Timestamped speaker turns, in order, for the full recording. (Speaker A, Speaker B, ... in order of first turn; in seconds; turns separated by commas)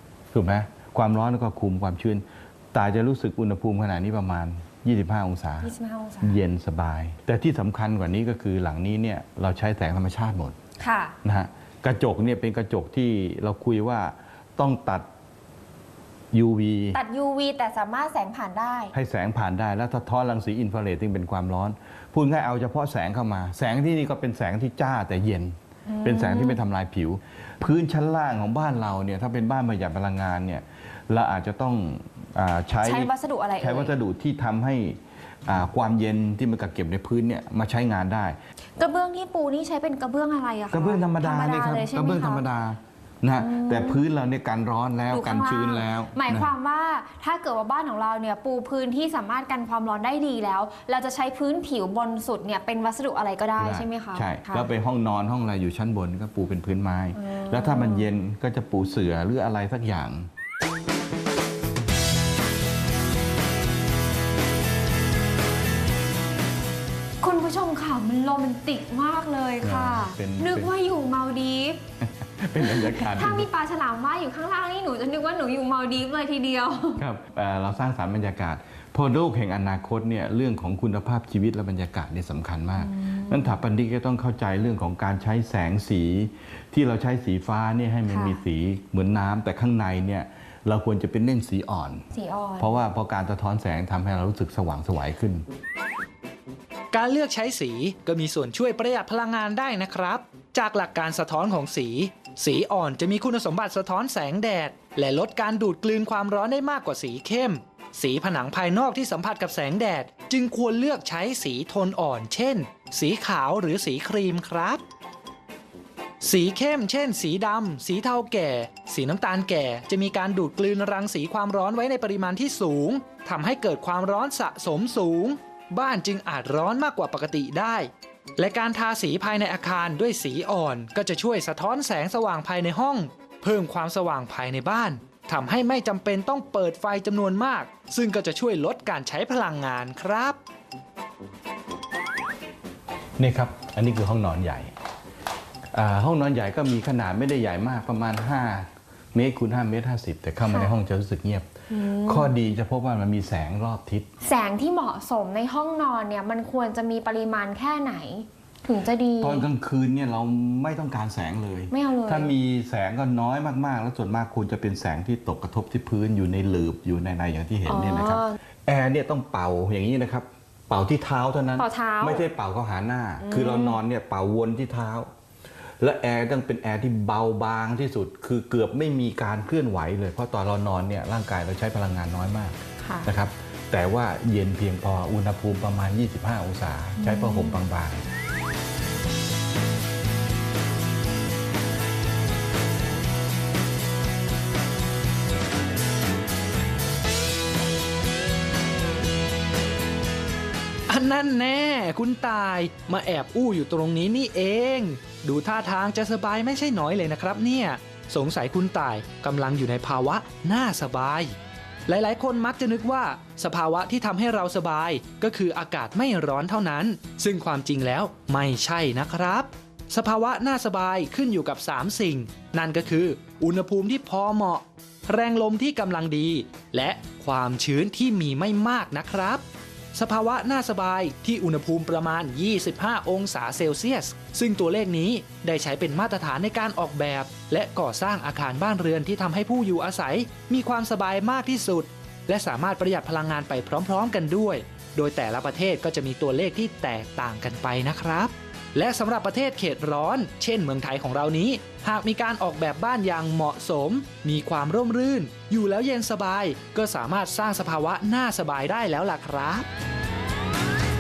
Speaker A: 0.3-10.6, Speaker B: 5.6-6.4, Speaker B: 10.8-11.2, Speaker A: 11.2-15.1, Speaker A: 16.3-17.0, Speaker B: 16.9-18.9, Speaker A: 18.9-38.4, Speaker B: 25.9-26.6, Speaker B: 32.8-34.0, Speaker B: 38.8-42.4, Speaker A: 40.7-46.5, Speaker B: 43.4-44.0, Speaker B: 45.1-54.7, Speaker A: 53.6-60.3, Speaker B: 57.2-58.1, Speaker B: 67.2-71.8, Speaker A: 69.6-70.7, Speaker A: 72.0-73.5, Speaker B: 72.6-77.0, Speaker A: 77.0-92.1, Speaker B: 82.8-83.5, Speaker B: 88.1-88.4, Speaker B: 92.1-92.8, Speaker A: 92.6-95.5, Speaker C: 96.9-114.8, Speaker C: 116.2-140.4, Speaker A: 143.2-144.7, Speaker A: 145.7-154.1, Speaker B: 150.4-150.7, Speaker B: 151.7-152.3, Speaker B: 154.2-159.5, Speaker A: 159.2-175.1, Speaker B: 161.7-162.3, Speaker B: 167.7-168.4, Speaker B: 171.6-172.2, Speaker B: 173.2-173.8, Speaker A: 175.8-188.0, Speaker B: 182.8-183.1, Speaker B: 187.0-187.6, Speaker C: 200.9-211.3, Speaker C: 211.9-259.7